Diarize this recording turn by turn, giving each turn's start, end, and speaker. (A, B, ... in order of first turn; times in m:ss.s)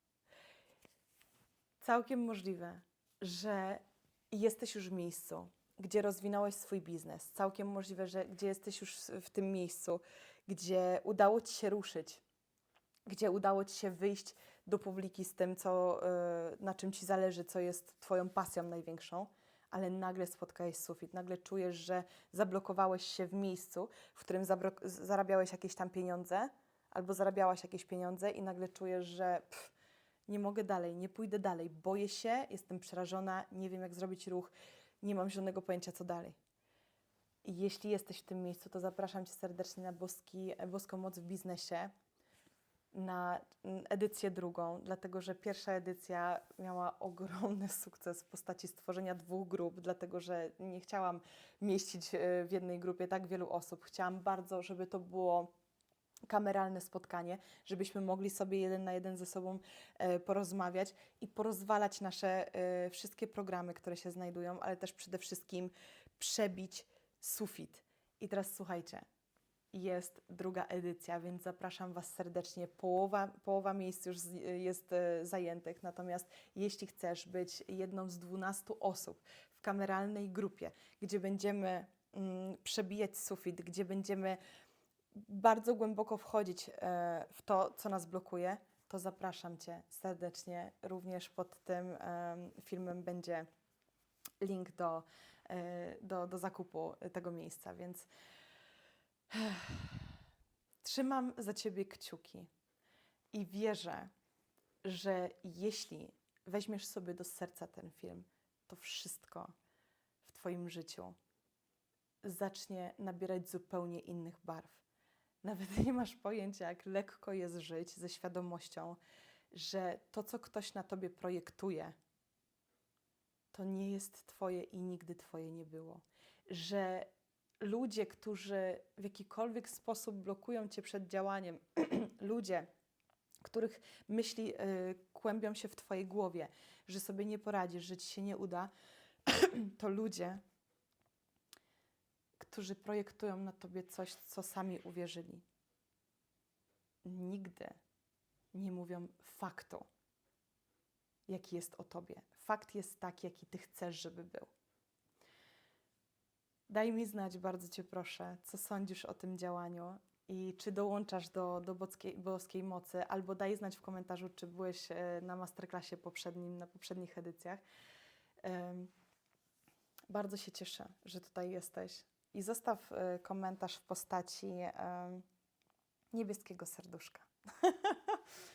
0:01.8-0:12.2 A
0:13.1-0:29.7 A
0:30.3-0:36.4 A
0:37.4-0:41.9 A
0:42.9-0:55.5 A
0:56.3-1:09.0 A
1:09.7-1:24.4 A
1:25.2-1:33.5 A
1:34.4-1:38.1 A
1:39.3-1:40.1 A
1:40.8-1:42.5 A
1:43.3-1:44.1 A
1:44.8-1:49.5 A
1:50.2-1:51.2 A
1:52.2-1:54.8 A
1:55.4-1:59.0 A
1:59.5-2:02.0 A
2:03.5-2:07.1 A
2:07.6-2:12.7 A
2:13.4-2:18.7 A
2:19.3-2:20.4 A
2:22.4-2:25.4 A
2:27.0-2:27.8 A
2:28.5-2:29.9 A
2:31.3-2:34.5 A
2:36.7-2:47.6 A
2:48.4-2:48.9 A
2:50.1-2:55.2 A
2:56.1-2:58.2 A